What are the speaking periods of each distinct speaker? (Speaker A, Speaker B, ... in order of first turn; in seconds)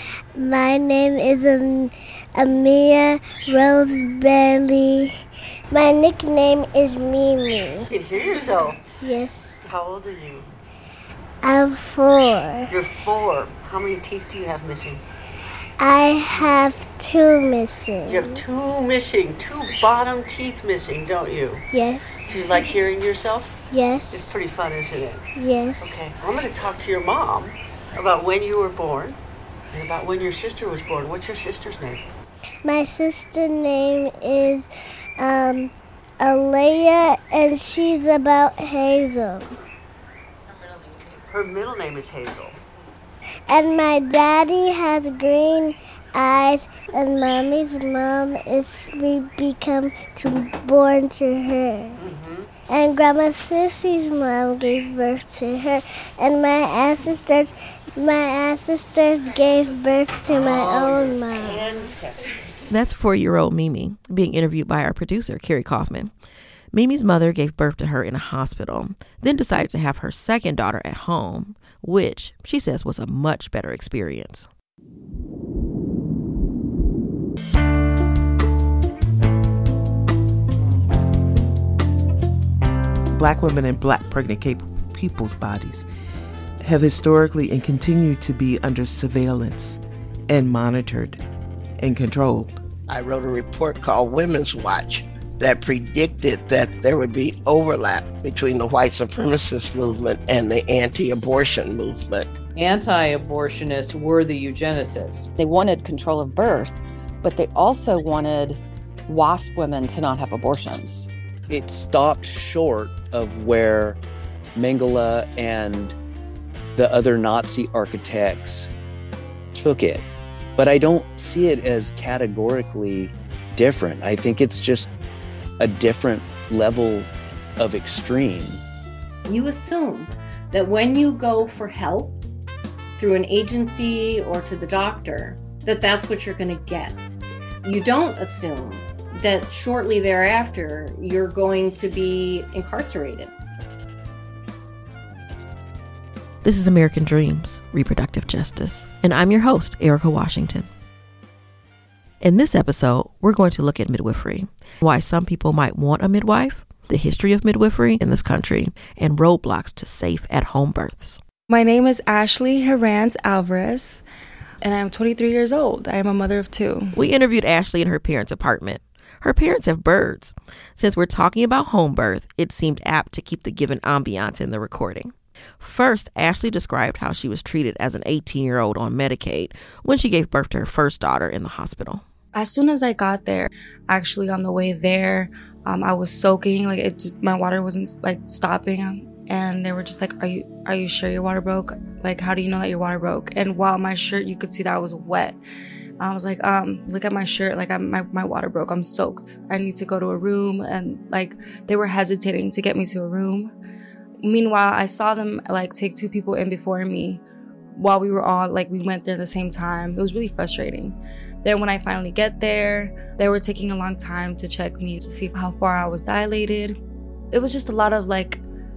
Speaker A: 0.4-5.1, 5.7-7.9, 9.0-9.6, 11.4-12.7, 15.8-18.4, 21.7-22.2, 23.7-24.3, 25.4-26.0, 32.6-34.7, 35.2-39.5, 43.5-52.0, 52.7-61.7
Speaker B: 7.9-8.8, 9.6-10.5, 12.7-15.0, 18.1-21.6, 22.3-29.2, 29.7-32.0, 40.9-42.6, 52.0-52.5, 60.2-62.2
Speaker C: 62.7-66.1, 66.7-74.5, 146.4-150.7, 152.2-161.2, 166.9-182.0
Speaker D: 83.1-85.9, 86.6-91.2, 91.8-92.6
Speaker E: 92.9-102.4
Speaker F: 102.5-105.3
Speaker G: 105.4-111.1
Speaker H: 111.5-114.0, 114.5-116.0, 116.8-118.7, 119.5-120.0, 120.6-124.9, 125.6-128.6
Speaker I: 129.3-132.2, 133.0-143.3
Speaker J: 161.5-164.0, 164.6-166.9, 182.3-195.4, 196.0-203.5, 204.2-207.2, 207.7-216.8, 217.3-218.4